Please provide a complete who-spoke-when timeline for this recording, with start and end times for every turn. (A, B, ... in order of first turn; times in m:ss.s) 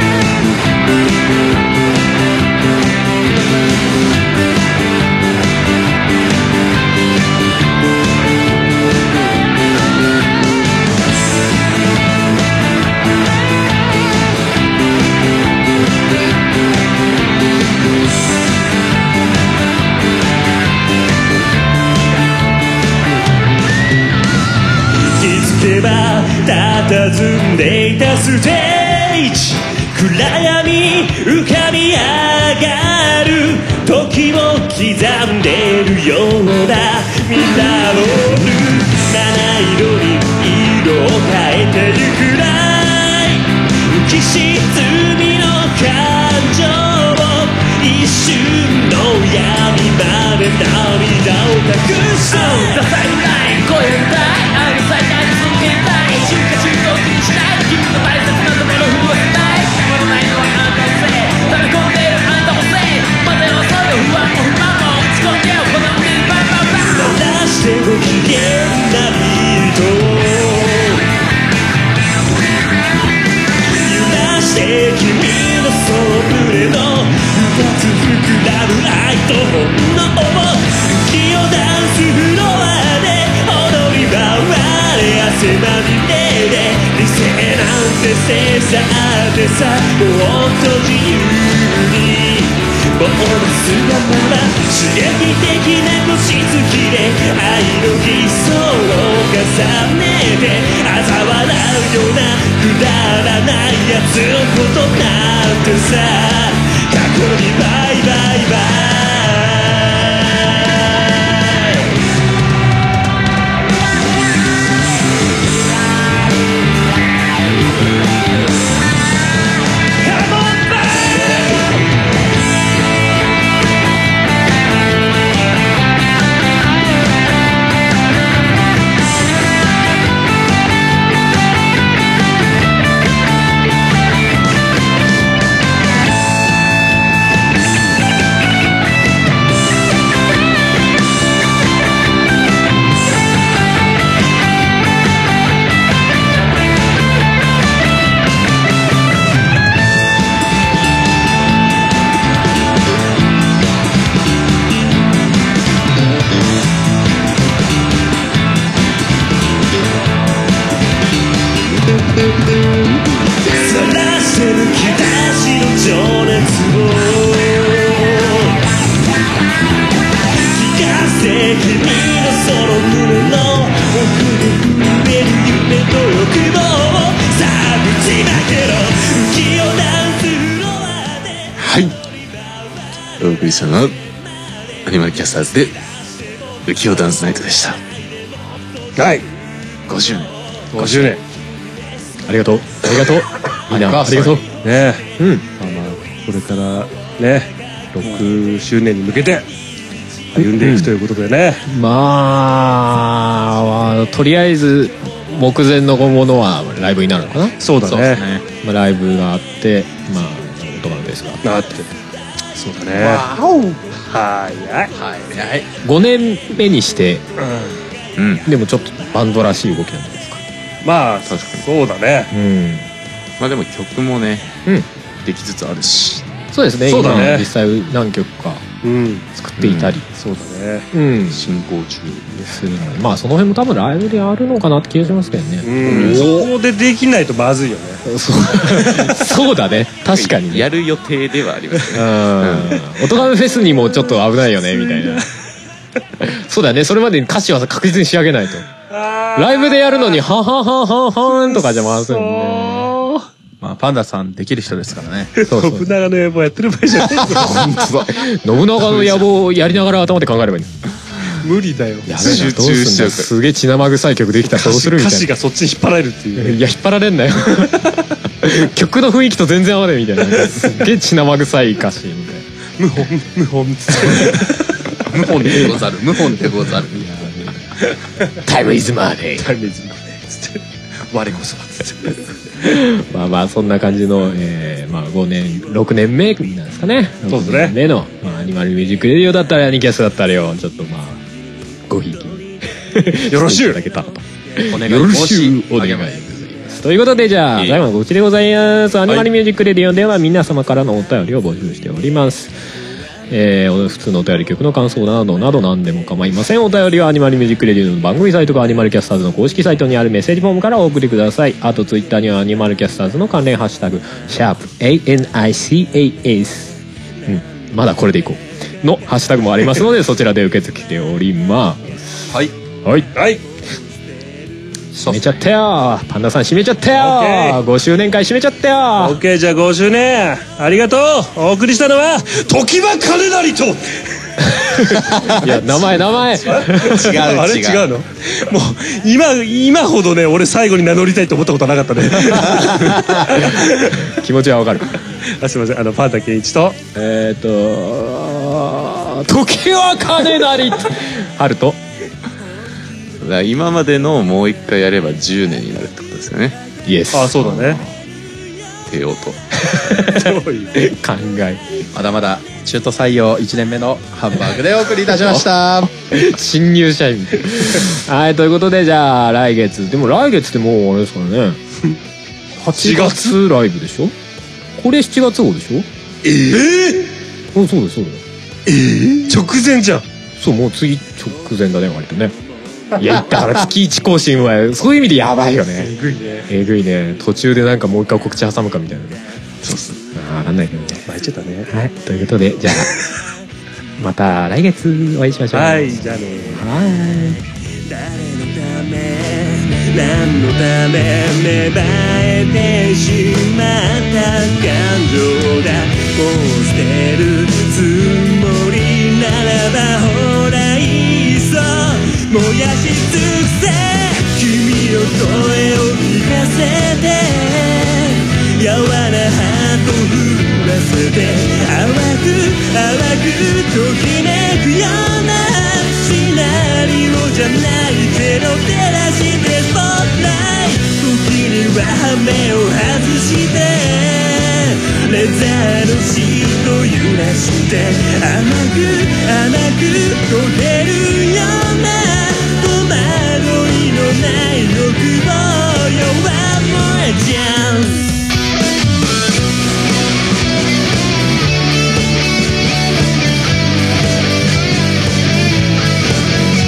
0:25.2-0:57.2 A
0:57.9-1:03.8 A
1:06.8-1:11.0 A
1:13.8-1:51.8 A
2:00.0-2:01.4 A
2:43.5-2:48.5 A
2:50.5-3:01.5 A
3:01.6-3:01.9 B
3:03.2-3:04.0 B
3:04.8-3:05.8 B
3:06.6-3:07.8 B
3:09.0-3:09.2 C
3:09.9-3:10.3 B
3:10.7-3:11.2 C
3:12.3-3:14.4 D
3:13.7-3:14.4 E
3:14.5-3:17.5 C
3:15.2-3:15.4 D
3:18.0-3:18.3 E
3:18.0-3:19.5 C
3:20.4-3:20.9 D
3:20.4-3:21.6 C
3:21.7-3:27.6 D
3:27.6-3:28.2 C
3:27.8-3:28.4 E
3:28.6-3:31.4 D
3:31.4-3:31.9 C
3:32.5-3:33.3 C
3:32.9-3:33.8 E
3:34.1-3:34.9 C
3:35.0-3:35.7 E
3:35.8-3:37.2 D
3:37.4-3:37.8 C
3:38.2-3:38.5 B
3:38.5-3:40.4 D
3:40.8-3:42.3 C
3:41.3-3:41.7 B
3:42.3-3:42.9 D
3:43.4-3:44.6 B
3:45.2-3:46.3 B
3:46.5-3:48.7 D
3:46.9-3:47.5 C
3:48.8-3:49.3 C
3:49.4-3:50.1 D
3:49.6-3:50.0 B
3:50.1-3:50.9 C
3:50.9-3:51.4 D
3:51.3-3:52.5 B
3:52.4-3:56.4 D
3:55.6-3:58.0 C
3:55.9-3:56.2 E
3:58.0-4:00.7 D
4:00.1-4:03.0 B
4:01.9-4:05.3 D
4:06.2-4:08.7 D
4:08.9-4:10.2 C
4:09.4-4:13.0 D
4:11.3-4:13.3 C
4:13.6-4:15.4 E
4:15.4-4:17.7 C
4:15.5-4:15.9 D
4:17.5-4:20.7 D
4:17.5-4:18.1 B
4:21.4-4:22.1 C
4:22.1-4:25.3 D
4:22.2-4:23.3 B
4:24.5-4:26.6 C
4:26.4-4:32.4 D
4:30.4-4:30.7 C
4:32.8-4:34.6 C
4:35.1-4:37.1 E
4:36.9-4:37.6 D
4:38.4-4:39.5 D
4:39.4-4:42.2 C
4:42.6-4:51.2 D
4:47.3-4:47.8 C
4:51.9-5:02.6 D
4:53.3-4:53.8 C
4:54.6-4:56.1 E
5:03.3-5:22.3 D
5:22.8-5:23.1 D
5:23.2-5:23.4 C
5:24.9-5:25.3 E
5:25.1-5:29.2 D
5:27.0-5:27.6 C
5:29.0-5:35.5 C
5:34.5-5:37.1 D
5:36.4-5:44.1 C
5:36.6-5:37.9 E
5:42.6-5:45.0 D
5:45.2-5:46.8 C
5:47.0-5:51.8 D
5:53.2-5:56.6 B
5:56.9-5:57.9 D
5:57.1-5:57.8 C
5:58.9-5:59.4 B
5:59.6-6:01.6 D
5:59.9-6:00.7 C
6:01.9-6:05.9 E
6:06.0-6:11.6 D
6:12.6-6:14.1 D
6:12.8-6:13.4 C
6:14.8-6:15.9 D
6:16.3-6:17.1 C
6:17.5-6:18.2 D
6:18.7-6:19.2 E
6:18.7-6:20.1 C
6:20.4-6:22.3 D
6:23.0-6:25.9 D
6:25.8-6:26.5 C
6:26.5-6:29.2 D
6:29.6-6:30.0 B
6:30.1-6:31.0 D
6:31.1-6:31.7 C
6:31.7-6:33.0 D
6:34.0-6:37.4 D
6:35.5-6:36.6 C
6:37.8-7:28.1 A